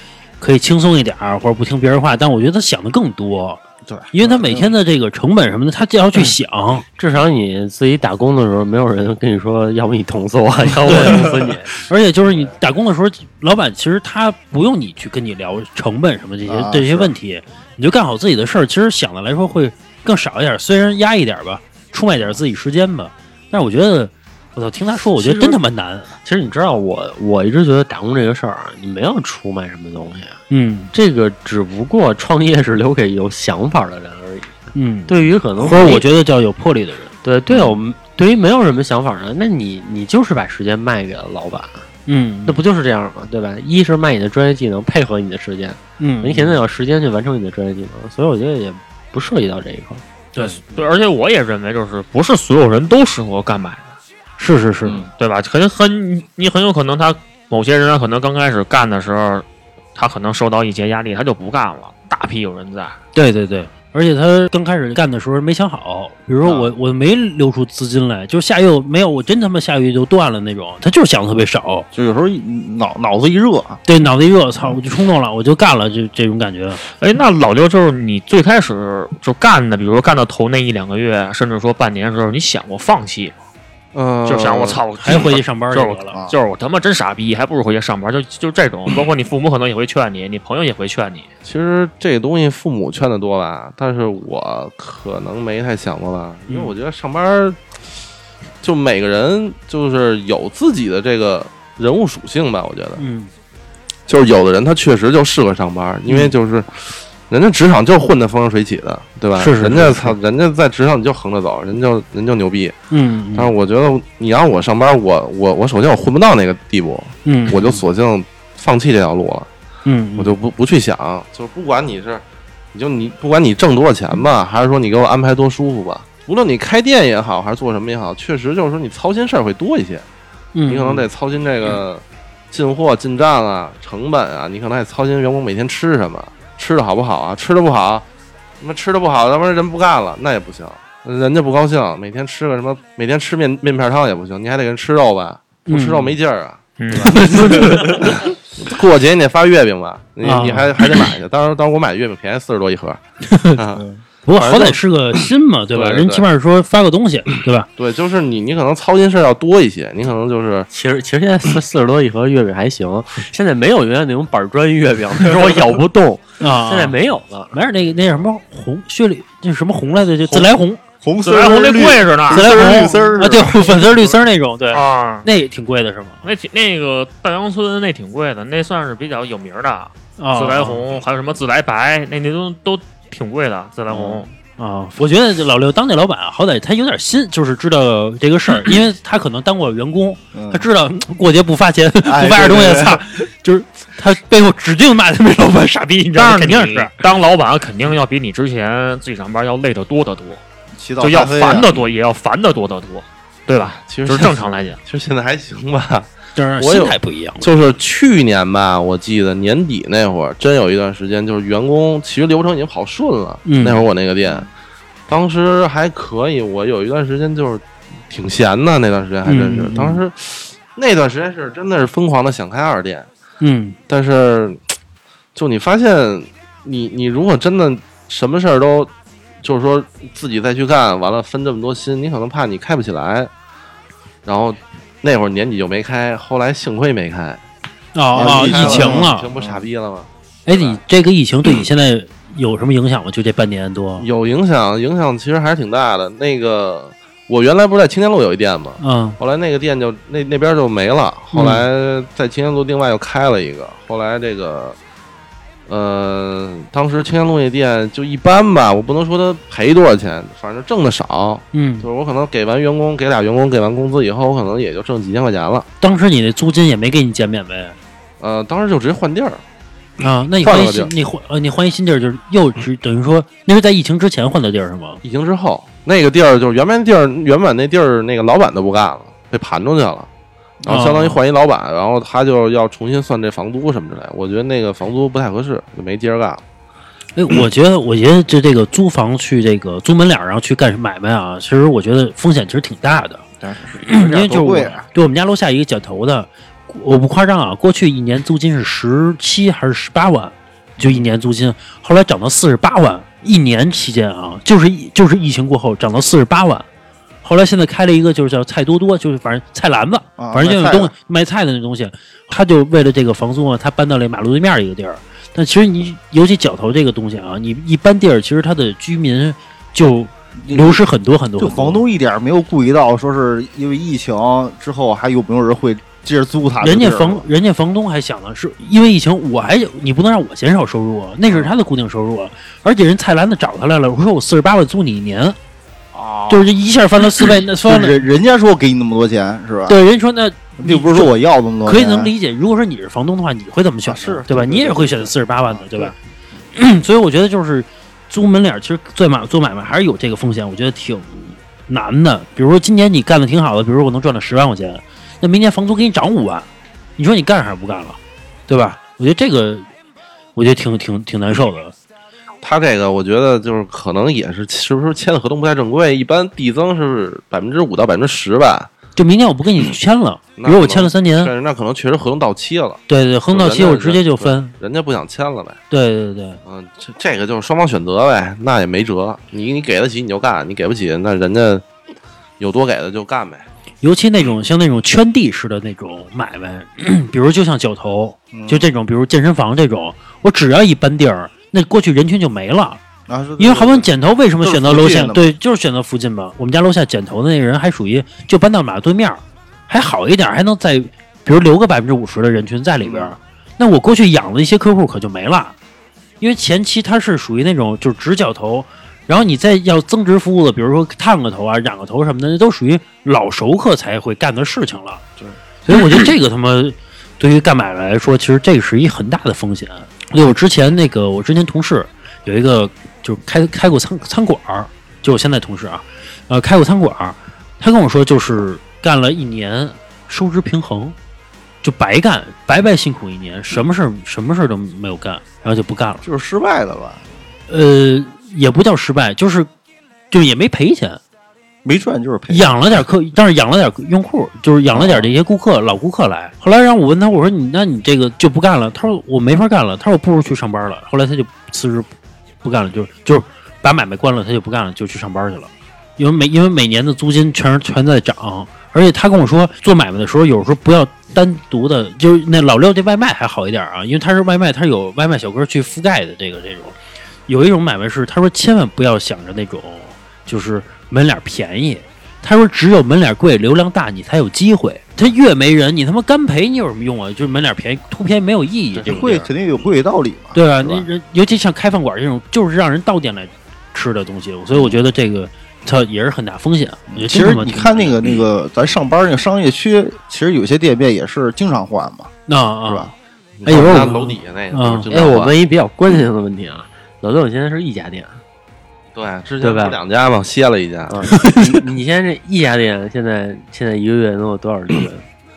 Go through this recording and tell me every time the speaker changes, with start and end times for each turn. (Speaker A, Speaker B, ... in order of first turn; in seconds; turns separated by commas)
Speaker A: 0.4-6.8, Speaker B: 3.8-4.7, Speaker C: 7.0-11.7, Speaker A: 10.9-11.2, Speaker A: 11.8-26.1, Speaker B: 16.4-17.1, Speaker C: 25.2-25.6, Speaker C: 26.2-30.4, Speaker A: 30.5-30.9, Speaker C: 30.9-34.5, Speaker A: 34.7-37.1, Speaker C: 35.1-36.0, Speaker C: 37.2-41.9, Speaker B: 37.5-37.8, Speaker A: 42.1-42.6, Speaker C: 42.5-50.0, Speaker A: 46.0-46.6, Speaker A: 50.3-50.8, Speaker D: 50.4-53.9, Speaker A: 54.4-55.0, Speaker D: 55.2-63.0, Speaker A: 63.1-71.9, Speaker B: 66.4-66.7, Speaker B: 71.9-73.8, Speaker A: 73.8-76.8, Speaker D: 77.0-83.3, Speaker E: 83.9-84.8, Speaker D: 84.2-91.3, Speaker A: 85.0-86.1, Speaker E: 91.4-97.6, Speaker A: 96.5-96.7, Speaker E: 98.6-103.0, Speaker A: 103.0-103.3, Speaker E: 104.1-112.8, Speaker A: 106.1-106.3, Speaker A: 109.4-110.2, Speaker A: 112.9-113.5, Speaker E: 113.3-119.5, Speaker A: 117.2-117.8, Speaker A: 119.8-120.3, Speaker E: 120.2-130.0, Speaker A: 130.5-131.1, Speaker E: 130.7-138.1, Speaker E: 138.6-153.0, Speaker A: 145.7-146.2, Speaker D: 146.8-148.0, Speaker A: 147.1-148.0, Speaker A: 150.2-150.7, Speaker A: 153.3-153.6, Speaker E: 153.5-155.2, Speaker A: 154.2-157.7, Speaker E: 155.7-156.3, Speaker E: 157.8-160.7, Speaker C: 160.7-167.6, Speaker A: 166.4-166.9, Speaker A: 167.5-170.8, Speaker B: 171.0-174.1, Speaker D: 171.2-172.9, Speaker A: 172.3-176.3, Speaker D: 174.7-175.3, Speaker D: 176.2-184.3, Speaker A: 180.2-180.8, Speaker B: 183.9-184.3, Speaker A: 184.6-196.9, Speaker B: 190.3-190.7, Speaker B: 192.0-193.0, Speaker D: 196.1-200.4, Speaker B: 200.8-201.7, Speaker D: 201.0-204.8, Speaker E: 203.8-214.5, Speaker A: 206.3-207.5, Speaker A: 213.4-213.8, Speaker E: 215.1-223.1, Speaker A: 219.2-220.0, Speaker A: 223.4-223.8, Speaker E: 223.9-224.6, Speaker E: 225.3-228.9, Speaker E: 229.4-233.3, Speaker E: 234.2-237.4, Speaker A: 237.9-239.3, Speaker B: 238.1-239.6, Speaker E: 238.1-240.8, Speaker A: 240.4-244.1, Speaker E: 244.0-254.8, Speaker A: 248.8-249.2, Speaker A: 251.3-251.7, Speaker E: 255.7-265.6, Speaker A: 261.5-261.9, Speaker A: 265.8-267.8, Speaker E: 268.2-269.4, Speaker A: 270.0-275.0, Speaker E: 270.4-270.9, Speaker E: 275.0-280.1, Speaker E: 280.6-286.4, Speaker A: 280.7-281.2, Speaker A: 287.1-293.2, Speaker B: 293.4-294.9, Speaker A: 293.8-306.6, Speaker B: 300.8-301.1, Speaker A: 307.2-321.8, Speaker B: 310.2-310.9, Speaker B: 320.4-320.8, Speaker B: 321.4-327.2, Speaker A: 326.6-335.4, Speaker B: 331.3-331.5, Speaker B: 335.9-336.5, Speaker A: 336.3-338.1, Speaker B: 337.6-339.8, Speaker A: 339.7-345.9, Speaker B: 340.6-342.1, Speaker B: 343.8-345.9, Speaker A: 346.5-359.6, Speaker A: 360.4-361.7, Speaker E: 362.4-368.7, Speaker A: 368.9-371.3, Speaker E: 370.4-375.6, Speaker A: 372.9-374.5, Speaker A: 375.7-376.4, Speaker E: 376.4-381.6, Speaker E: 382.4-383.4, Speaker A: 383.8-392.8, Speaker B: 388.3-388.7, Speaker B: 393.1-393.9, Speaker A: 393.4-405.5, Speaker B: 394.4-395.3, Speaker B: 402.8-403.1, Speaker A: 406.2-415.0, Speaker A: 415.6-430.9, Speaker A: 431.6-436.0, Speaker B: 436.0-437.1, Speaker A: 437.5-439.5, Speaker A: 440.1-441.0, Speaker B: 441.6-442.8, Speaker A: 442.3-451.9, Speaker B: 444.7-445.1, Speaker A: 452.4-466.8, Speaker A: 467.3-479.3, Speaker B: 478.8-480.9, Speaker A: 480.3-487.9, Speaker B: 484.5-484.8, Speaker B: 486.9-492.1, Speaker A: 492.3-492.9, Speaker B: 492.6-492.9, Speaker E: 493.4-495.3, Speaker A: 493.4-494.9, Speaker C: 494.9-498.2, Speaker E: 498.9-501.2, Speaker C: 499.4-499.8, Speaker C: 500.9-505.0, Speaker A: 501.2-501.4